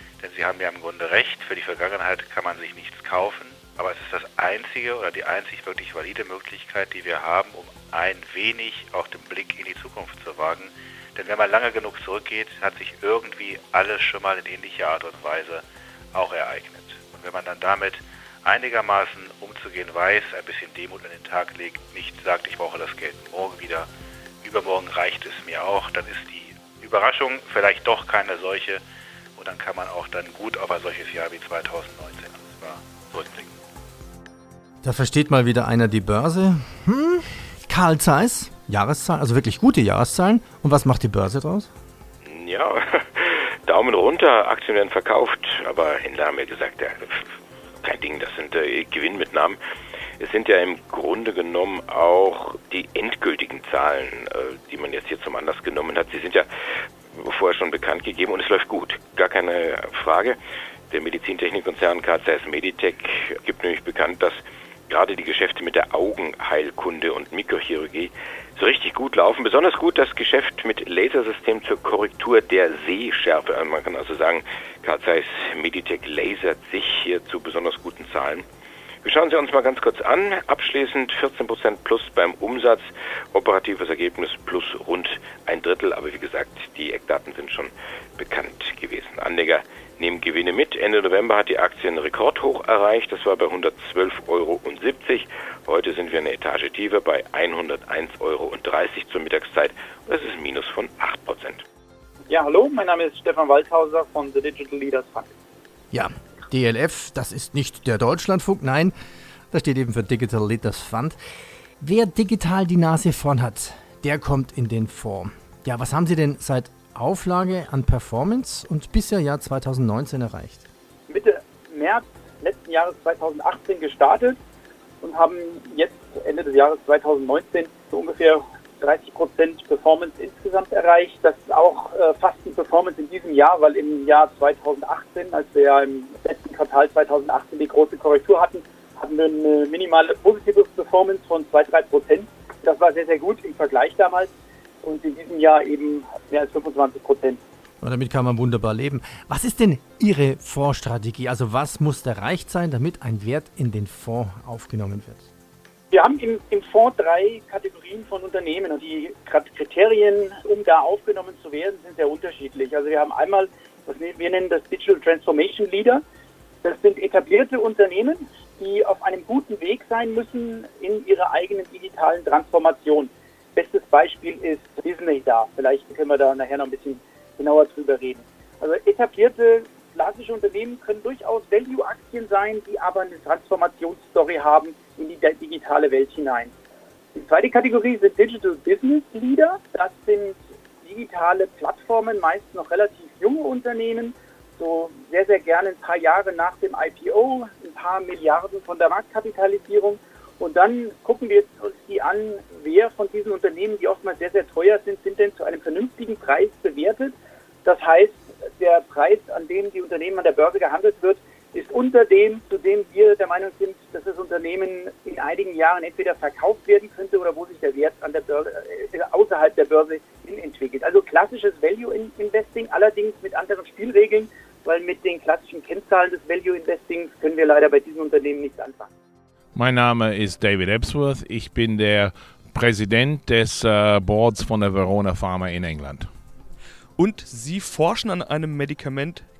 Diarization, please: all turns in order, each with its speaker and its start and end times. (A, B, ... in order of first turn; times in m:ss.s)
0:00.2-0:23.9 A
0:24.4-0:28.8 A
0:29.4-0:33.5 A
0:34.8-0:41.7 B
0:42.2-0:47.2 C
0:47.8-0:49.6 C
0:50.2-0:56.4 C
0:57.1-1:00.4 C
1:00.9-1:04.4 C
1:04.9-1:18.4 C
1:19.0-1:41.6 C
1:42.3-1:45.3 D
1:45.9-1:48.9 B
1:49.5-1:51.2 B
1:51.8-2:00.6 B
2:01.1-2:04.4 D
2:05.0-2:24.3 D
2:24.8-2:27.4 D
2:27.8-2:35.3 B
2:35.9-2:46.0 D
2:46.6-3:06.5 D
3:07.1-3:48.9 D
3:49.5-3:56.1 E
3:57.0-3:59.2 F